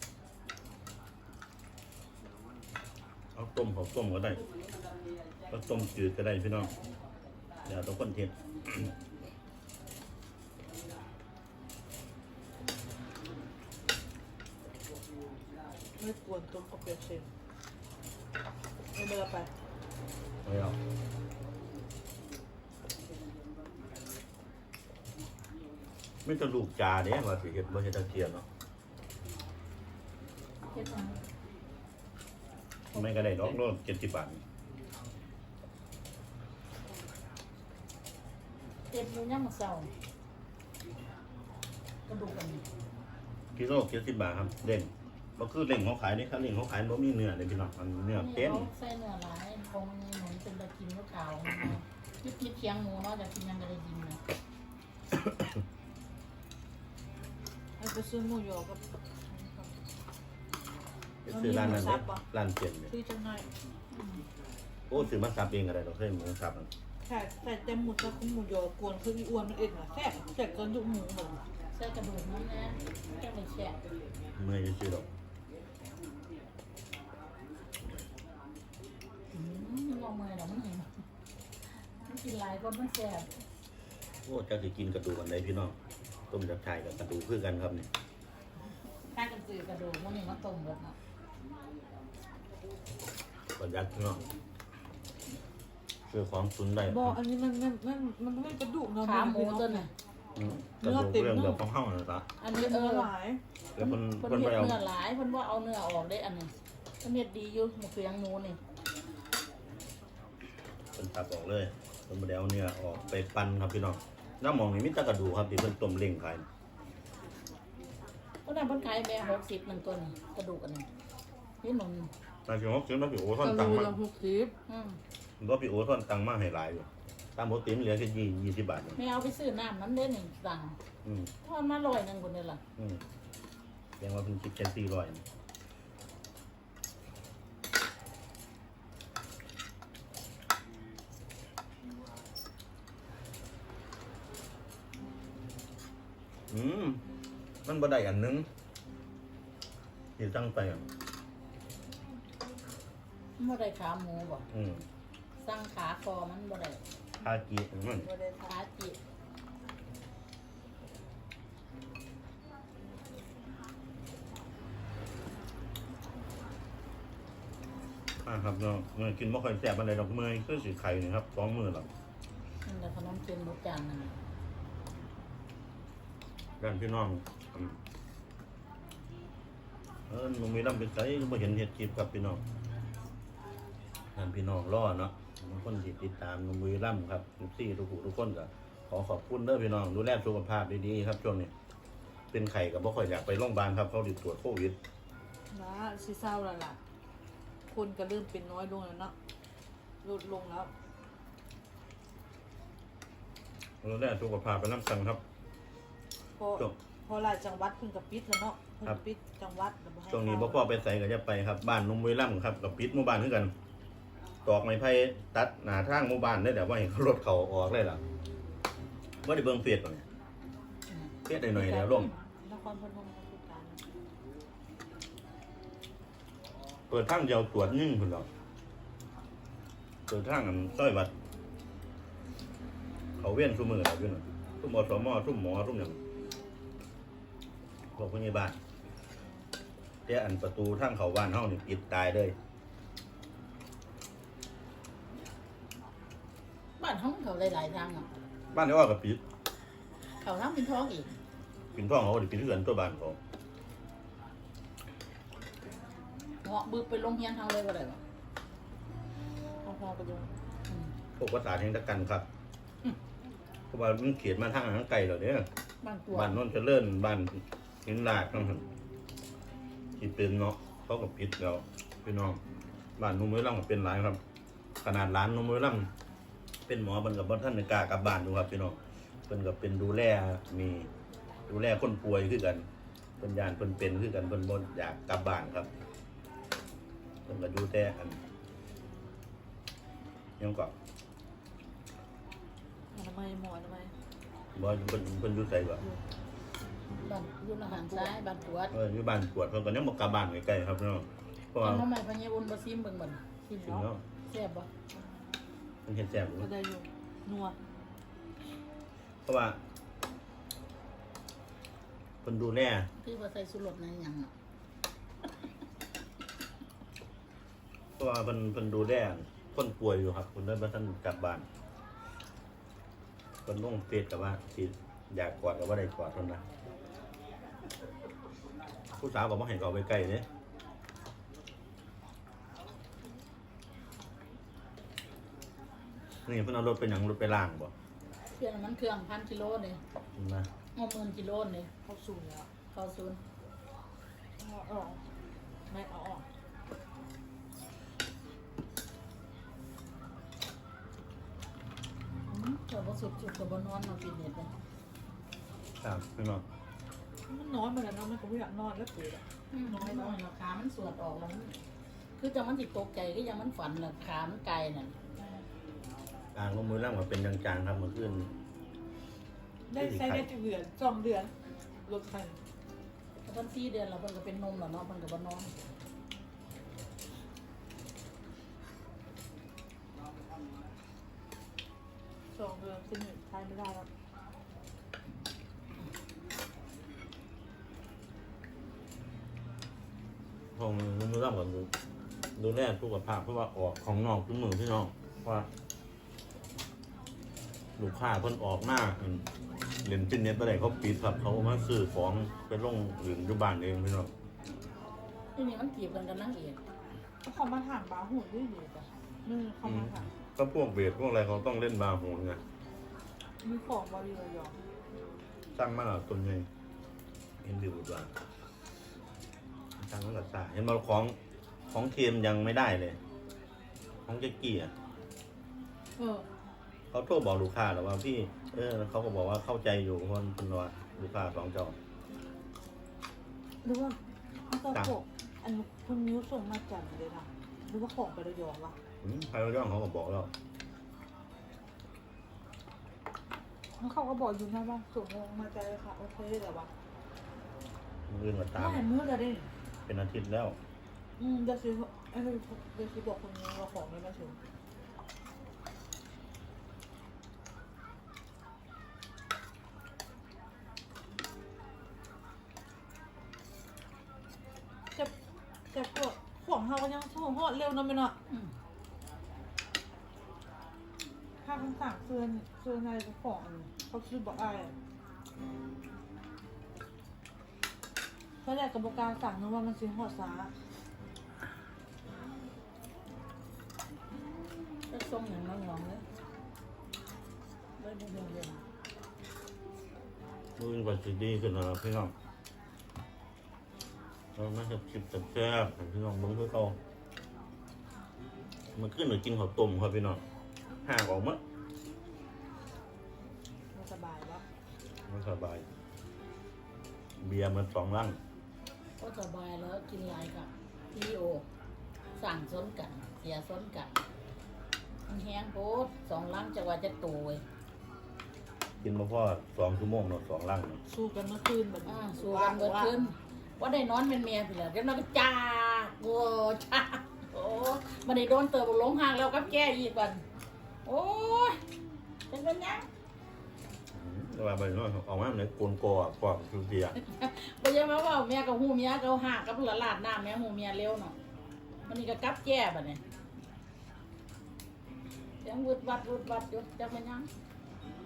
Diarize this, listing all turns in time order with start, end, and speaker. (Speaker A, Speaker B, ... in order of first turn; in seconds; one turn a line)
Speaker A: 3.3-4.4
Speaker A: 5.5-6.7
Speaker A: 7.6-8.9
Speaker B: 16.0-17.3
Speaker B: 18.9-19.5
Speaker A: 20.4-20.8
Speaker A: 26.2-28.4
Speaker C: 30.7-31.2
Speaker A: 32.9-34.4
Speaker C: 38.9-39.9
Speaker C: 42.1-42.6
Speaker A: 43.5-48.7
Speaker C: 48.1-54.2
Speaker A: 55.1-55.6
Speaker B: 57.8-59.8
Speaker A: 61.2-62.9
Speaker B: 61.3-62.2
Speaker B: 62.9-63.5
Speaker C: 63.9-64.2
Speaker A: 64.9-66.7
Speaker B: 67.0-71.4
Speaker C: 71.7-73.8
Speaker A: 74.3-75.1
Speaker C: 79.3-80.9
Speaker C: 82.0-83.3
Speaker A: 84.2-85.7
Speaker A: 86.3-87.9
Speaker C: 89.1-90.9
Speaker A: 93.5-94.2
Speaker A: 96.1-97.2
Speaker B: 96.8-99.9
Speaker C: 99.0-99.9
Speaker A: 100.3-102.3
Speaker B: 100.8-101.6
Speaker C: 102.4-103.1
Speaker B: 102.5-103.4
Speaker A: 103.7-104.8
Speaker C: 103.8-108.6
Speaker A: 111.0-116.5
Speaker C: 118.4-120.9
Speaker C: 121.6-122.1
Speaker A: 122.5-123.9
Speaker B: 123.4-124.5
Speaker C: 124.7-125.0
Speaker A: 125.4-129.0
Speaker C: 128.9-130.8
Speaker A: 131.0-131.3
Speaker C: 131.4-132.6
Speaker A: 132.8-133.0
Speaker A: 134.0-135.2
Speaker A: 146.5-147.0
Speaker A: 147.6-148.5
Speaker A: 150.2-150.9
Speaker C: 153.4-154.4
Speaker A: 154.5-154.8
Speaker C: 155.4-156.8
Speaker A: 157.2-158.1
Speaker B: 158.0-158.5
Speaker C: 158.5-159.0
Speaker A: 168.2-171.9
Speaker C: 172.6-174.1
Speaker A: 176.6-177.8
Speaker A: 180.1-182.4
Speaker A: 184.1-191.5
Speaker A: 192.3-194.8
Speaker B: 195.5-196.8
Speaker B: 197.7-199.1
Speaker B: 200.0-200.7
Speaker A: 203.8-205.2
Speaker B: 206.4-210.7
Speaker A: 210.1-213.5
Speaker A: 214.4-218.0
Speaker A: 219.2-220.1
Speaker A: 221.2-222.1
Speaker B: 221.5-223.8
Speaker A: 226.9-228.3
Speaker A: 230.1-231.1
Speaker A: 233.2-236.0
Speaker A: 237.9-238.6
Speaker A: 240.1-242.3
Speaker C: 246.8-248.1
Speaker A: 248.5-249.2
Speaker C: 250.2-251.2
Speaker A: 251.7-253.2
Speaker C: 256.4-258.0
Speaker B: 259.6-260.3
Speaker A: 261.2-262.3
Speaker A: 263.7-265.5
Speaker C: 265.8-266.4
Speaker A: 266.1-268.6
Speaker A: 270.0-272.4
Speaker A: 273.0-274.2
Speaker A: 274.8-275.9
Speaker A: 276.7-280.9
Speaker A: 281.5-282.7
Speaker A: 283.2-285.7
Speaker A: 287.2-288.2
Speaker A: 290.4-290.7
Speaker B: 292.9-293.9
Speaker A: 294.5-295.8
Speaker C: 296.9-298.7
Speaker B: 297.7-298.3
Speaker A: 298.7-301.9
Speaker C: 301.6-303.2
Speaker B: 303.4-303.9
Speaker A: 303.6-304.0
Speaker C: 304.3-304.7
Speaker A: 305.9-306.5
Speaker B: 306.4-307.6
Speaker A: 309.2-309.6
Speaker A: 312.2-312.9
Speaker C: 313.0-314.3
Speaker A: 318.0-321.5
Speaker A: 323.4-326.4
Speaker A: 328.9-330.3
Speaker A: 336.2-337.7
Speaker C: 338.4-339.8
Speaker A: 340.1-340.5
Speaker C: 340.7-341.7
Speaker B: 341.8-342.5
Speaker C: 342.7-343.2
Speaker B: 344.4-345.0
Speaker B: 345.7-346.2
Speaker C: 352.3-354.5
Speaker A: 355.8-356.4
Speaker B: 357.3-360.1
Speaker C: 359.5-361.5
Speaker C: 362.2-364.9
Speaker B: 365.2-365.4
Speaker A: 366.3-368.3
Speaker B: 369.7-371.3
Speaker A: 369.7-370.3
Speaker B: 371.8-372.4
Speaker C: 373.2-375.5
Speaker B: 382.3-383.9
Speaker A: 390.5-391.7
Speaker A: 392.4-395.5
Speaker A: 397.8-399.2
Speaker A: 399.8-404.1
Speaker C: 405.3-406.6
Speaker B: 407.2-410.1
Speaker A: 409.6-412.4
Speaker B: 413.4-414.6
Speaker A: 415.5-416.5
Speaker A: 417.4-418.1
Speaker A: 419.8-421.2
Speaker A: 421.7-423.0
Speaker A: 424.1-424.7
Speaker B: 426.0-426.3
Speaker A: 426.9-431.8
Speaker B: 433.6-438.8
Speaker A: 439.0-440.3
Speaker B: 443.8-446.7
Speaker A: 448.1-448.9
Speaker B: 448.5-449.5
Speaker A: 449.9-450.6
Speaker B: 451.2-454.4
Speaker B: 465.7-468.2
Speaker B: 471.4-474.8
Speaker B: 478.4-480.5
Speaker C: 484.8-486.0
Speaker C: 487.8-488.6
Speaker A: 490.6-492.1
Speaker A: 494.3-496.8
Speaker A: 498.7-500.2
Speaker A: 500.8-501.4
Speaker B: 503.7-504.4
Speaker A: 505.1-505.6
Speaker A: 507.2-508.2
Speaker C: 509.0-511.4
Speaker C: 512.2-514.0
Speaker C: 515.1-517.4
Speaker A: 518.8-520.8
Speaker B: 520.9-523.1
Speaker C: 521.9-530.2
Speaker C: 530.8-531.6
Speaker C: 532.3-532.9
Speaker A: 533.9-537.0
Speaker C: 536.9-541.1
Speaker C: 541.9-543.0
Speaker C: 545.4-547.3